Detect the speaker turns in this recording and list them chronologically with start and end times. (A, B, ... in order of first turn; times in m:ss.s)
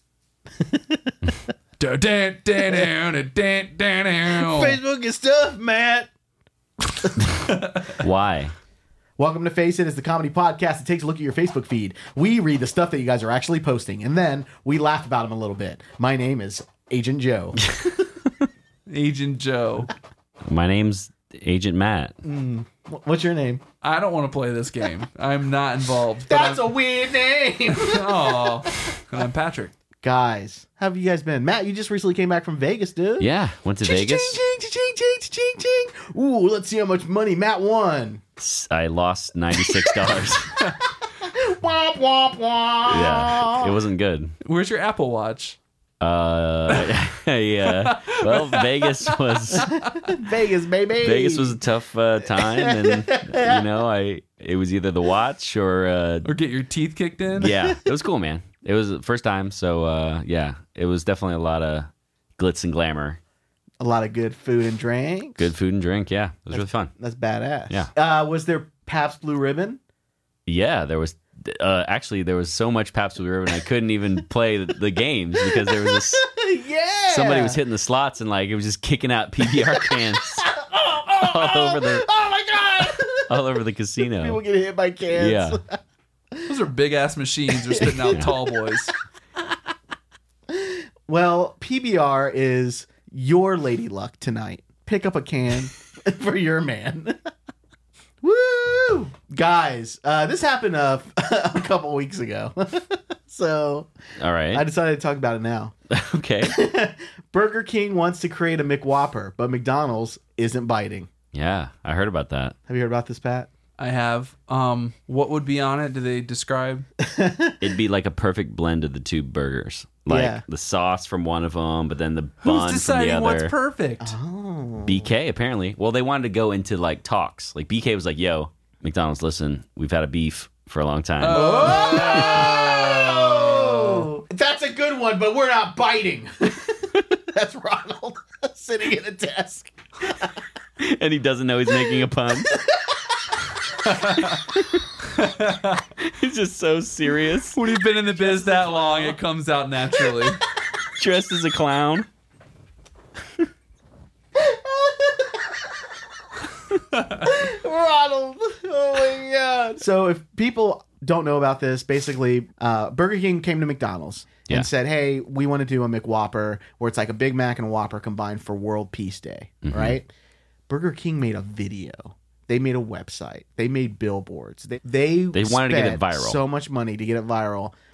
0:00.6-0:01.4 A
0:01.8-0:04.8 B
0:04.3-0:06.1 A
0:07.5-0:08.0 B
0:08.0-0:08.5 C
0:09.2-0:17.8 A
0:18.9-0:19.9 B
0:20.5-0:22.2 C
0:22.2-0:23.6 A
0:23.8-0:26.7 B
0:26.3-0:28.8 A
0:27.7-0:29.7 B
0:30.0-0:33.3 A
0:33.2-0:34.4 C
0:33.8-0:38.2 A
0:38.4-0:40.6 C
0:39.6-0:43.8 A
0:42.9-0:44.4 C
0:44.4-0:45.6 B
0:46.0-0:49.6 C
0:46.7-0:47.0 B
0:47.6-0:50.0 B
0:49.6-0:51.6 A
0:51.0-0:56.3 C
0:52.3-0:53.6 A
0:56.2-0:57.5 B
0:57.4-1:03.2 C
0:57.4-0:57.8 A
1:03.8-1:05.5 A
1:05.4-1:06.9 C
1:06.5-1:09.8 A
1:10.5-1:16.2 C
1:15.4-1:17.6 A
1:17.1-1:20.4 C
1:19.5-1:23.5 A
1:21.2-1:22.1 C
1:23.3-1:24.4 C
1:24.1-1:25.8 A
1:25.1-1:25.6 C
1:26.5-1:28.9 B
1:27.6-1:28.3 A
1:30.5-1:37.2 A
1:38.2-1:43.9 A
1:44.2-1:44.6 C
1:44.5-1:45.7 A
1:45.9-1:46.5 C
1:46.4-1:51.1 A
1:51.3-1:52.6 C
1:52.7-1:53.5 A
1:53.8-1:56.8 B
1:57.0-1:57.6 A
1:57.6-2:03.5 C
2:00.1-2:00.4 A
2:02.4-2:04.1 B
2:04.0-2:05.1 A
2:04.9-2:12.5 C
2:11.2-2:14.1 B
2:11.3-2:20.3 A
2:20.8-2:22.5 C
2:21.7-2:23.5 A
2:23.9-2:24.4 B
2:25.1-2:25.8 B
2:26.0-2:27.6 C
2:27.5-2:30.4 B
2:28.1-2:29.2 A
2:31.0-2:32.1 C
2:34.4-2:35.6 A
2:37.1-2:50.1 A
2:49.6-2:50.0 C
2:50.7-2:57.7 A
2:55.3-2:56.4 C